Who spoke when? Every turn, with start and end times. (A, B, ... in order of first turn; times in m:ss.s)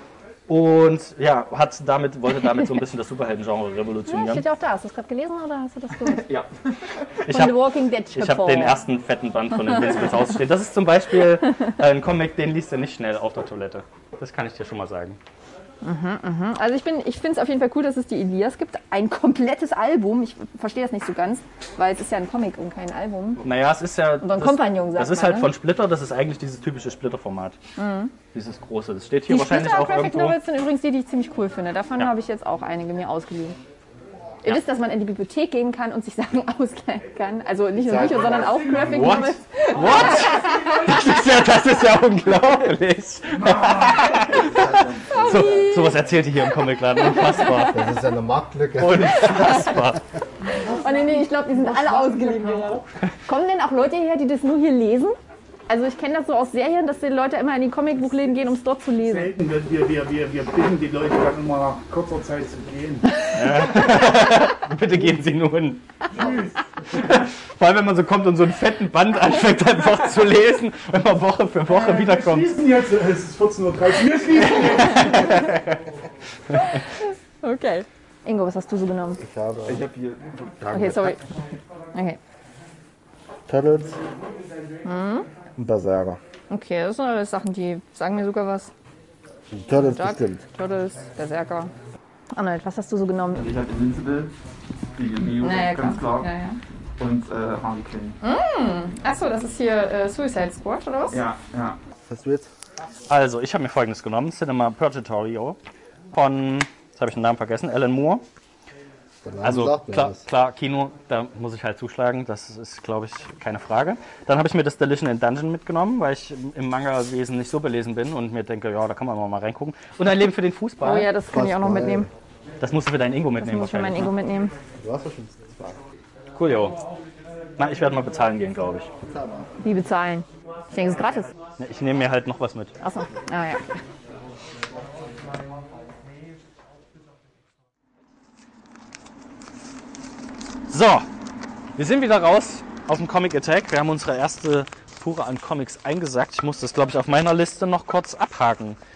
0:00.5-0:04.4 A
0:04.1-0:06.2 B
0:07.2-0:15.2 A
0:07.3-0:08.8 B
0:15.8-0:23.4 B
0:23.4-0:27.6 A
0:24.2-0:25.5 B
0:27.8-0:28.1 B
0:28.3-0:30.4 A
0:29.3-0:33.6 B
0:34.4-0:40.9 B
0:37.8-0:39.1 C
0:38.7-0:44.6 A
0:44.2-0:45.2 D
0:44.4-0:45.6 C
0:45.1-0:47.8 A
0:45.2-0:46.0 B
0:47.0-0:47.6 B
0:47.7-0:49.7 C
0:48.8-0:50.0 A
0:50.6-0:55.2 B
0:55.7-0:59.3 B
0:59.2-0:59.6 D
0:59.3-1:02.8 E
1:03.3-1:05.8 A
1:06.2-1:06.5 D
1:06.9-1:12.6 A
1:12.4-1:15.0 E
1:14.5-1:15.8 A
1:17.4-1:19.2 B
1:19.2-1:19.9 C
1:19.7-1:20.9 D
1:20.6-1:21.2 C
1:20.7-1:21.2 B
1:23.5-1:24.0 C
1:24.8-1:25.3 B
1:25.6-1:26.2 C
1:26.5-1:28.7 B
1:29.5-1:30.4 C
1:29.8-1:31.7 B
1:32.3-1:33.5 B
1:33.4-1:34.3 D
1:35.0-1:36.3 D
1:35.4-1:36.6 B
1:37.0-1:38.2 D
1:38.2-1:41.2 B
1:41.1-1:41.8 D
1:42.1-1:42.5 C
1:43.1-1:45.6 A
1:46.1-1:48.2 A
1:49.2-1:50.2 C
1:49.4-2:01.1 A
2:00.8-2:02.1 B
2:01.3-2:02.1 C
2:02.6-2:04.1 A
2:03.4-2:04.5 B
2:04.8-2:05.8 C
2:06.4-2:06.8 A
2:07.6-2:08.9 A
2:09.0-2:09.5 C
2:09.6-2:11.3 B
2:11.6-2:12.7 A
2:12.8-2:13.7 B
2:20.7-2:21.1 A
2:21.8-2:28.8 A